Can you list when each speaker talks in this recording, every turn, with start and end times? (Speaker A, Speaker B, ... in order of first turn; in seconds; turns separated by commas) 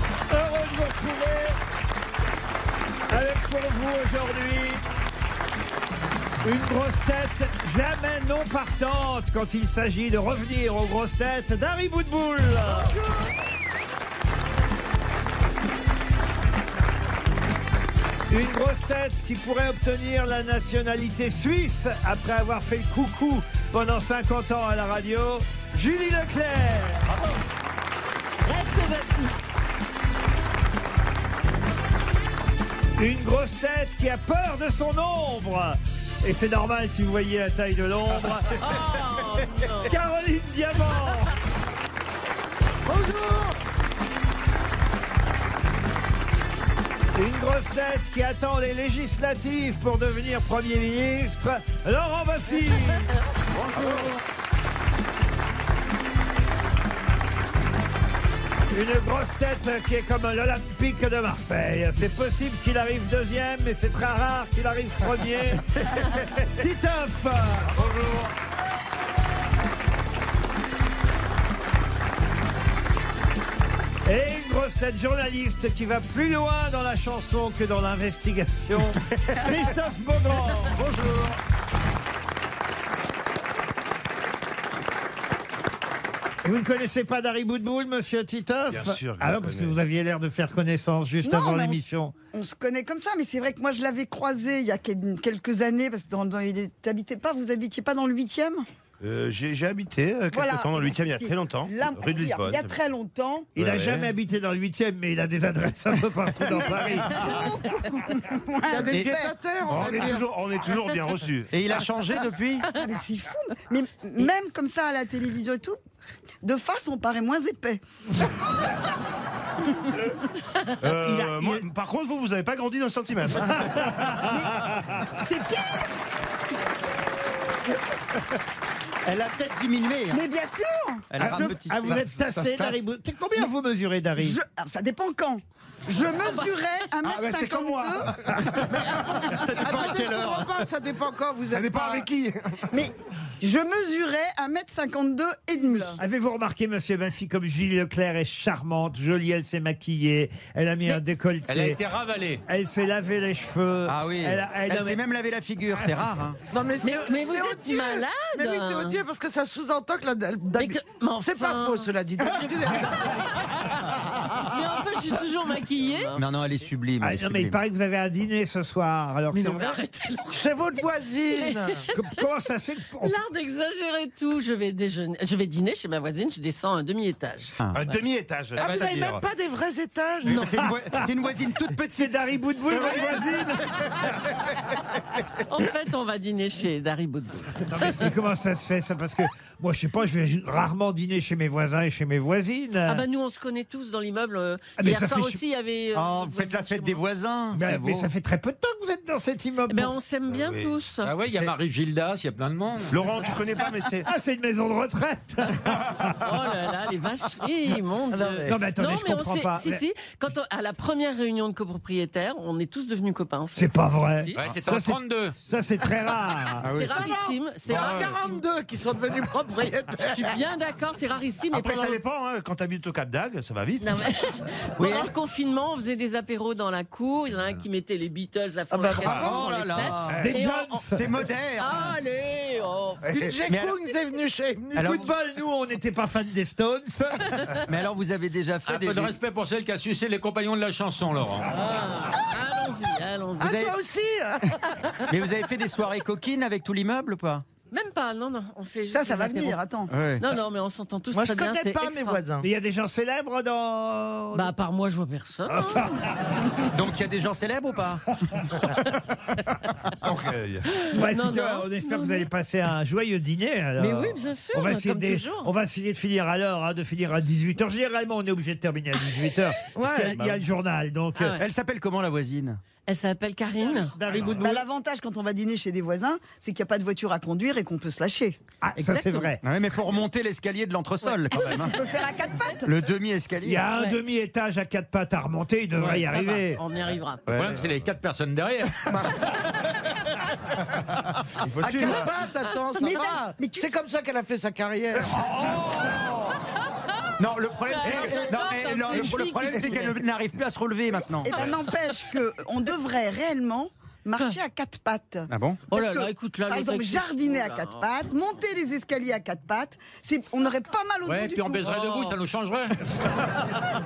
Speaker A: 0.3-1.6, Speaker A: 3.1-4.8, Speaker A: 6.4-13.0, Speaker B: 12.6-13.2, Speaker A: 18.3-27.1, Speaker C: 28.4-29.3, Speaker A: 33.0-38.5, Speaker C: 38.5-39.9, Speaker A: 39.9-41.3, Speaker D: 42.9-43.5, Speaker A: 47.1-53.1, Speaker A: 58.7-67.8, Speaker E: 67.7-68.3, Speaker A: 74.0-80.8, Speaker E: 80.8-81.3, Speaker A: 86.4-92.1, Speaker E: 88.7-89.8, Speaker B: 91.2-91.8, Speaker B: 92.3-98.6, Speaker E: 99.0-102.8, Speaker B: 100.3-103.5, Speaker E: 103.5-104.1, Speaker A: 103.5-107.5, Speaker B: 106.4-109.3, Speaker D: 108.6-110.3, Speaker E: 109.7-111.7, Speaker F: 111.5-112.7, Speaker B: 112.8-115.8, Speaker B: 116.4-117.8, Speaker E: 120.8-124.1, Speaker A: 121.0-121.6, Speaker A: 123.7-124.3, Speaker B: 124.2-125.8, Speaker F: 129.1-130.2, Speaker B: 130.1-131.6, Speaker F: 131.1-132.5, Speaker A: 131.2-134.4, Speaker B: 134.2-138.3, Speaker C: 136.2-136.5, Speaker E: 137.0-139.3, Speaker D: 139.2-142.1, Speaker F: 139.4-140.7, Speaker E: 141.5-142.7, Speaker B: 142.7-146.0, Speaker A: 146.0-151.8, Speaker G: 151.5-152.4, Speaker A: 152.5-155.0, Speaker F: 153.8-156.4, Speaker D: 156.5-163.3, Speaker C: 156.8-159.0, Speaker C: 160.5-163.7, Speaker C: 164.3-166.2, Speaker F: 166.1-167.6, Speaker A: 167.0-169.8, Speaker D: 169.3-169.6, Speaker C: 169.4-170.5, Speaker D: 170.3-171.8, Speaker C: 171.3-172.0, Speaker A: 171.9-173.2, Speaker C: 173.0-177.6, Speaker E: 177.7-179.2, Speaker D: 178.6-180.5, Speaker G: 178.6-179.0, Speaker F: 180.3-182.3, Speaker A: 180.3-181.0, Speaker A: 181.9-184.0, Speaker E: 182.7-183.0, Speaker C: 185.4-188.1, Speaker A: 187.7-193.0, Speaker C: 192.8-197.0, Speaker A: 194.8-195.4, Speaker F: 195.9-198.1, Speaker A: 197.5-199.9, Speaker C: 199.7-201.2, Speaker E: 200.3-200.7, Speaker G: 201.0-203.1, Speaker E: 202.9-204.1, Speaker A: 204.0-206.3, Speaker C: 206.2-214.4, Speaker D: 208.1-208.6, Speaker A: 208.4-209.8, Speaker A: 213.5-216.7, Speaker G: 214.3-215.3, Speaker F: 216.6-216.9, Speaker C: 216.7-218.4, Speaker D: 216.9-220.4, Speaker E: 217.7-218.2, Speaker C: 220.0-222.0, Speaker E: 221.5-224.0, Speaker C: 223.8-230.8, Speaker F: 224.8-225.1, Speaker D: 228.7-229.5, Speaker E: 229.0-229.5, Speaker F: 229.2-230.2, Speaker E: 230.1-230.4, Speaker A: 230.1-231.1, Speaker F: 230.9-231.9, Speaker C: 231.6-233.1, Speaker D: 233.1-235.1, Speaker F: 233.4-233.8, Speaker F: 234.8-235.0, Speaker A: 234.8-237.4, Speaker F: 237.7-239.1, Speaker G: 238.7-241.5, Speaker C: 241.5-243.5, Speaker D: 243.4-244.8, Speaker F: 243.5-243.8, Speaker F: 245.1-247.4, Speaker C: 247.7-249.6, Speaker B: 248.9-249.9, Speaker F: 249.9-250.2, Speaker C: 250.2-252.2, Speaker D: 251.1-252.5, Speaker A: 252.4-254.5, Speaker C: 254.3-255.9, Speaker A: 255.5-256.0, Speaker F: 256.7-258.0, Speaker E: 260.0-260.7, Speaker A: 260.8-271.4, Speaker C: 260.8-262.3, Speaker C: 263.8-264.7, Speaker D: 264.0-265.4, Speaker D: 269.7-270.4, Speaker C: 271.2-271.4, Speaker F: 271.4-272.6, Speaker C: 272.9-273.9, Speaker A: 273.9-274.6, Speaker B: 274.4-278.4, Speaker A: 278.6-279.4, Speaker C: 278.8-279.3, Speaker F: 279.4-281.8, Speaker B: 281.3-282.7, Speaker F: 282.6-283.6, Speaker A: 283.4-286.6, Speaker C: 283.7-284.0, Speaker C: 285.8-287.3, Speaker G: 287.3-288.9, Speaker E: 291.4-292.2, Speaker B: 291.6-292.1, Speaker D: 291.7-296.4, Speaker B: 292.7-293.8, Speaker E: 295.3-295.9, Speaker F: 297.2-301.4, Speaker C: 297.7-300.0, Speaker B: 301.0-311.9, Speaker F: 305.3-305.6, Speaker C: 305.7-307.9, Speaker G: 311.0-312.8, Speaker C: 311.7-312.1